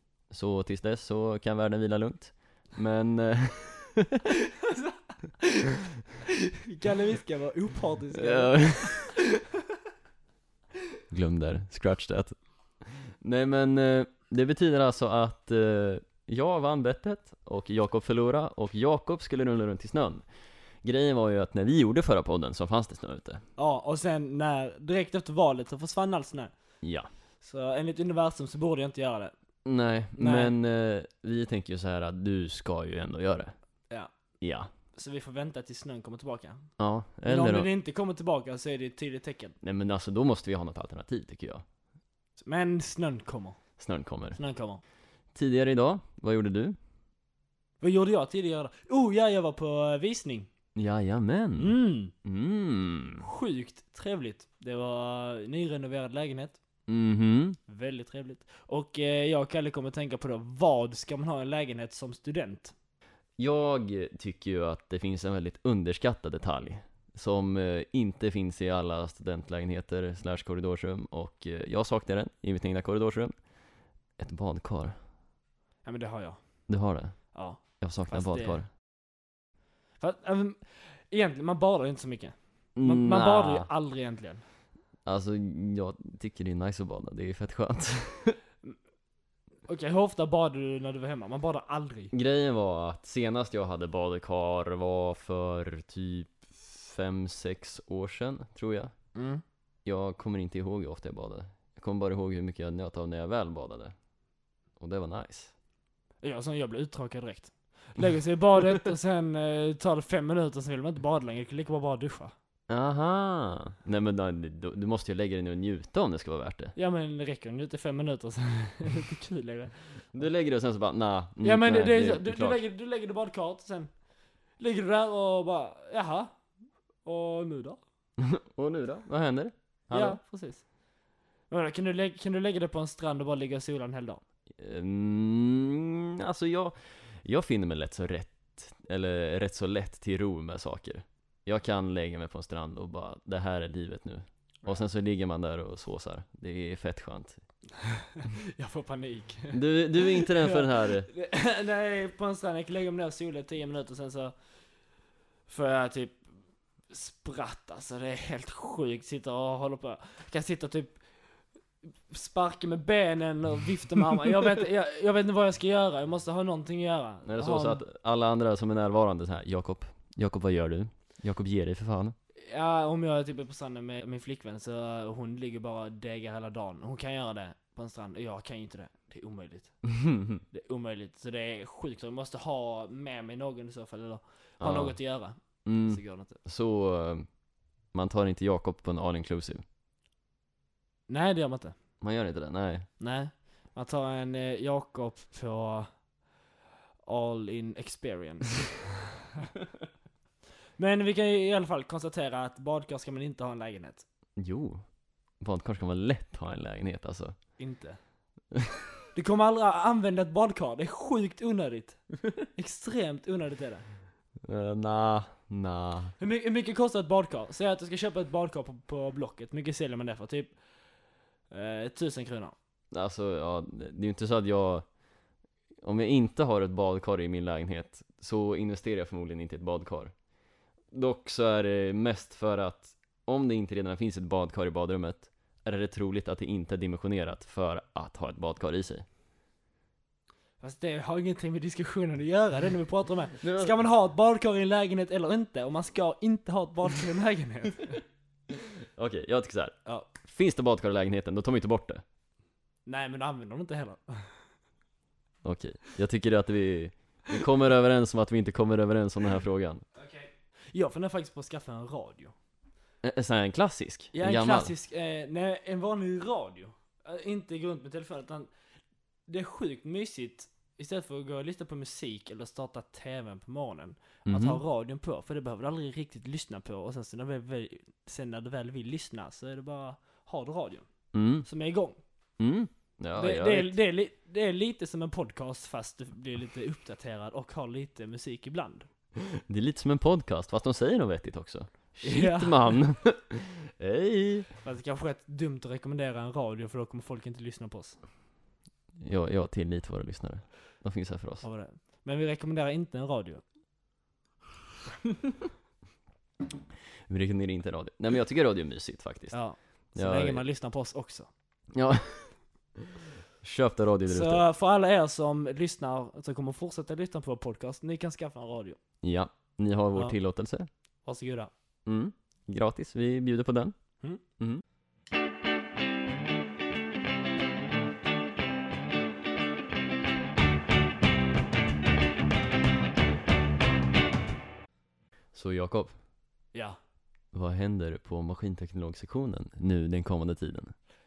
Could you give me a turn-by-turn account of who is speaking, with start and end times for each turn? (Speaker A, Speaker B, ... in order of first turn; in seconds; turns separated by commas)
Speaker A: 0.3-4.2, Speaker B: 4.5-5.8, Speaker B: 6.6-9.5, Speaker A: 8.1-9.1, Speaker A: 11.1-20.2, Speaker A: 20.8-23.4, Speaker B: 23.6-26.5, Speaker A: 26.8-27.1, Speaker B: 27.4-29.3, Speaker A: 29.6-33.5, Speaker B: 30.1-30.5, Speaker A: 34.4-34.7, Speaker B: 34.9-36.7, Speaker A: 36.8-37.7, Speaker B: 37.2-39.5, Speaker A: 39.6-41.6, Speaker B: 42.4-43.6, Speaker A: 43.8-44.4, Speaker B: 44.4-44.8, Speaker A: 45.3-46.8, Speaker B: 47.8-50.5, Speaker A: 50.8-53.2, Speaker B: 51.6-52.1, Speaker B: 53.2-56.6, Speaker A: 56.9-57.6, Speaker B: 57.7-62.7, Speaker A: 63.4-73.3, Speaker A: 74.2-74.9, Speaker B: 75.8-76.4, Speaker A: 76.7-78.7, Speaker B: 77.3-78.6, Speaker B: 80.0-84.4, Speaker A: 82.8-83.7, Speaker A: 85.0-88.4, Speaker B: 89.7-92.1, Speaker A: 92.1-98.9, Speaker B: 99.1-99.4, Speaker A: 99.8-103.9, Speaker A: 104.8-105.5, Speaker B: 106.2-112.3, Speaker A: 112.7-116.7, Speaker B: 116.8-120.0, Speaker A: 120.1-122.6, Speaker B: 121.4-123.9, Speaker B: 124.6-126.3, Speaker B: 127.0-127.8, Speaker A: 128.2-130.2, Speaker B: 129.9-130.6, Speaker B: 131.5-134.2, Speaker A: 134.5-147.4, Speaker B: 148.1-154.3, Speaker A: 149.5-151.1, Speaker B: 155.5-156.2, Speaker B: 156.9-161.0, Speaker B: 162.1-167.8, Speaker A: 167.2-172.1, Speaker B: 172.4-179.8, Speaker A: 179.9-180.4, Speaker B: 180.5-186.4, Speaker A: 184.6-185.0, Speaker A: 185.6-187.3, Speaker A: 187.9-189.6, Speaker B: 191.1-191.7, Speaker A: 192.0-192.9, Speaker B: 193.0-195.9, Speaker B: 197.1-198.9, Speaker B: 200.8-204.0, Speaker A: 204.4-204.8, Speaker A: 205.4-207.3, Speaker B: 207.6-208.0, Speaker A: 208.5-208.8, Speaker B: 209.1-212.0, Speaker B: 212.5-213.8, Speaker A: 214.4-216.1, Speaker B: 216.2-220.5, Speaker B: 221.5-222.5, Speaker A: 222.9-224.8, Speaker A: 225.8-230.1, Speaker A: 230.9-239.0, Speaker B: 240.6-248.0, Speaker A: 243.4-243.7, Speaker A: 248.5-252.0, Speaker B: 252.8-254.4, Speaker A: 255.4-259.8, Speaker B: 259.9-262.3, Speaker A: 263.0-264.7, Speaker B: 264.1-268.5, Speaker B: 269.3-280.9, Speaker A: 274.2-274.6, Speaker A: 281.1-281.5, Speaker B: 281.4-282.0, Speaker A: 282.4-283.7, Speaker B: 283.1-288.9, Speaker A: 289.2-294.5, Speaker B: 292.0-292.8, Speaker B: 294.6-298.0, Speaker A: 299.0-301.4, Speaker B: 301.4-303.4, Speaker A: 307.1-309.4, Speaker B: 309.3-311.3, Speaker A: 309.9-310.4, Speaker A: 311.7-312.3, Speaker A: 313.4-314.4, Speaker B: 314.1-318.8, Speaker A: 319.0-320.7, Speaker B: 321.0-321.5, Speaker A: 321.9-323.7, Speaker A: 335.3-335.9, Speaker A: 337.3-340.7